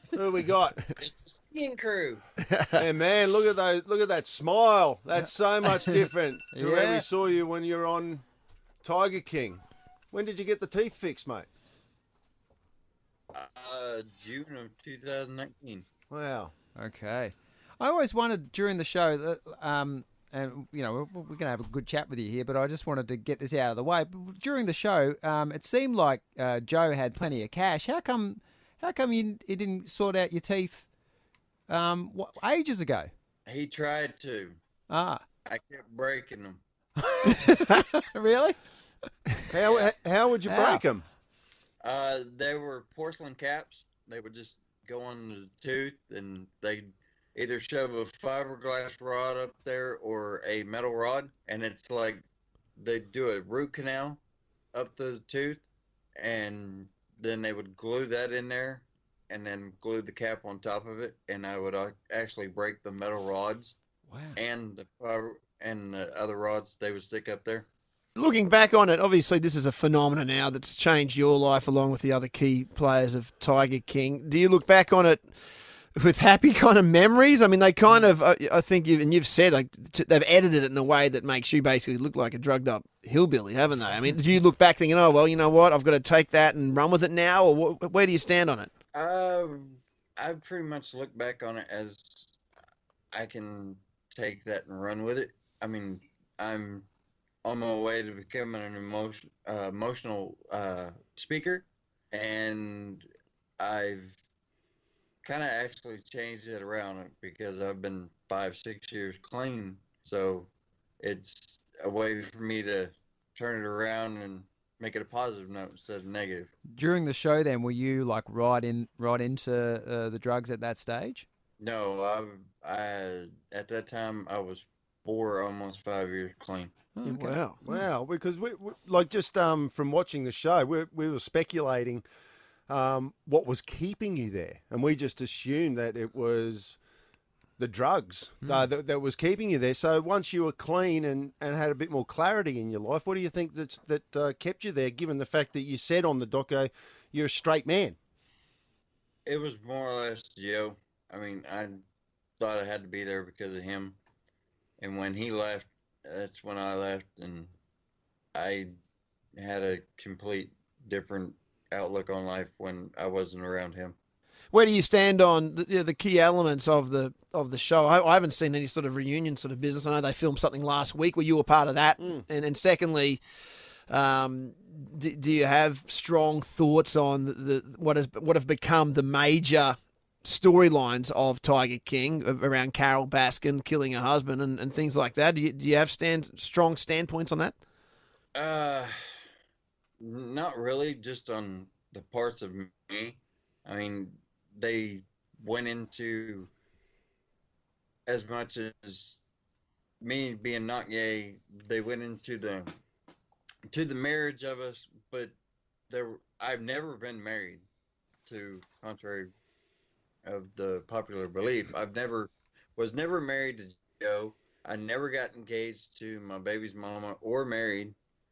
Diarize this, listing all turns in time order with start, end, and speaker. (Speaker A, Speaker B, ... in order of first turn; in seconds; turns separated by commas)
Speaker A: 0.1-0.8, Speaker B: 1.0-2.2, Speaker C: 2.5-2.8, Speaker A: 2.7-8.2, Speaker D: 5.2-7.0, Speaker A: 8.8-11.5, Speaker B: 13.3-15.8, Speaker A: 16.1-16.5, Speaker D: 16.8-30.9, Speaker D: 31.7-33.1, Speaker B: 33.5-34.6, Speaker D: 34.9-35.2, Speaker B: 35.5-36.6, Speaker D: 37.0-38.6, Speaker A: 39.5-41.0, Speaker B: 39.6-39.9, Speaker D: 40.5-40.9, Speaker B: 41.8-52.2, Speaker B: 52.8-54.2, Speaker B: 54.7-55.6, Speaker B: 56.2-63.8, Speaker D: 64.1-64.3, Speaker B: 64.3-67.7, Speaker C: 68.2-75.2, Speaker C: 76.0-88.7, Speaker B: 88.9-92.4, Speaker B: 93.1-96.9, Speaker B: 97.4-103.0, Speaker B: 103.6-104.2, Speaker B: 105.2-110.5, Speaker B: 111.0-116.5, Speaker D: 116.7-121.2, Speaker B: 121.6-126.7, Speaker D: 127.0-127.8, Speaker C: 127.0-127.6, Speaker A: 127.6-132.1, Speaker A: 132.7-136.8, Speaker A: 137.6-148.0, Speaker B: 149.2-151.8, Speaker B: 152.4-154.0, Speaker B: 154.8-157.5, Speaker B: 158.3-158.7, Speaker B: 159.3-163.9, Speaker C: 164.5-173.2, Speaker C: 173.9-187.6, Speaker B: 188.3-188.9, Speaker B: 190.0-196.5, Speaker B: 198.1-199.2, Speaker B: 200.0-202.7, Speaker B: 203.7-205.3, Speaker B: 205.9-207.7, Speaker B: 208.2-209.3, Speaker B: 210.2-217.9